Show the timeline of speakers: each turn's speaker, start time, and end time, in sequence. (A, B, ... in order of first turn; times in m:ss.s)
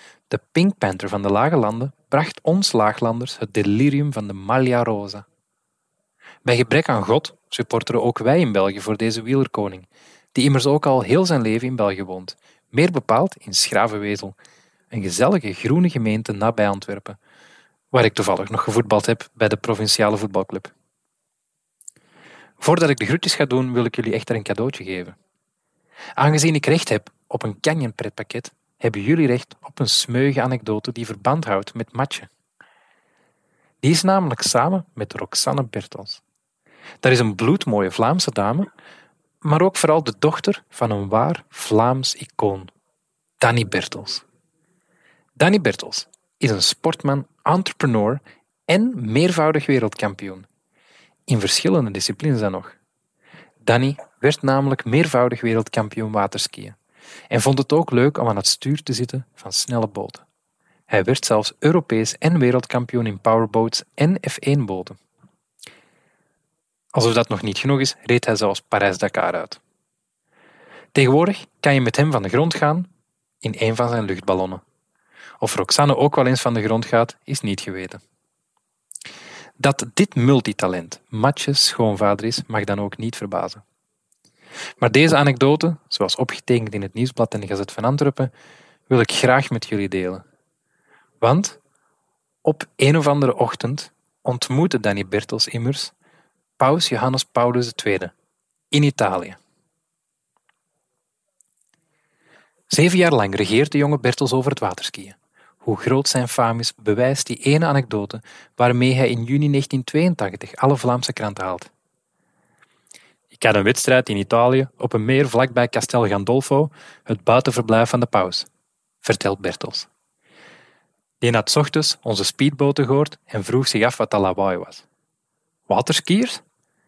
0:00.3-0:05.2 A
0:06.4-0:14.3 A
0:14.9-0:17.2 A
0:17.9-0:20.7 A
0:22.6-0:25.1 A
0:26.2-0:32.3 A
0:33.8-0:36.2 A
0:37.0-0:38.7 A
0:39.4-0:42.7 A
0:43.4-0:44.2 A
0:45.4-0:50.4 A
0:51.3-0:52.7 A
0:53.6-0:56.8 A
0:57.3-1:00.2 A
1:00.9-1:05.0 A
1:06.9-1:09.6 A
1:10.9-1:12.9 A
1:13.4-1:14.6 A
1:15.4-1:18.0 A
1:19.6-1:23.6 A
1:24.8-1:28.3 A
1:28.9-1:30.2 A
1:31.2-1:31.6 A
1:32.4-1:35.9 A
1:36.6-1:38.1 A
1:38.7-1:39.4 A
1:42.7-1:51.7 A
1:53.3-1:58.5 A
1:59.0-1:59.9 A
2:01.2-2:04.8 A
2:05.7-2:06.4 A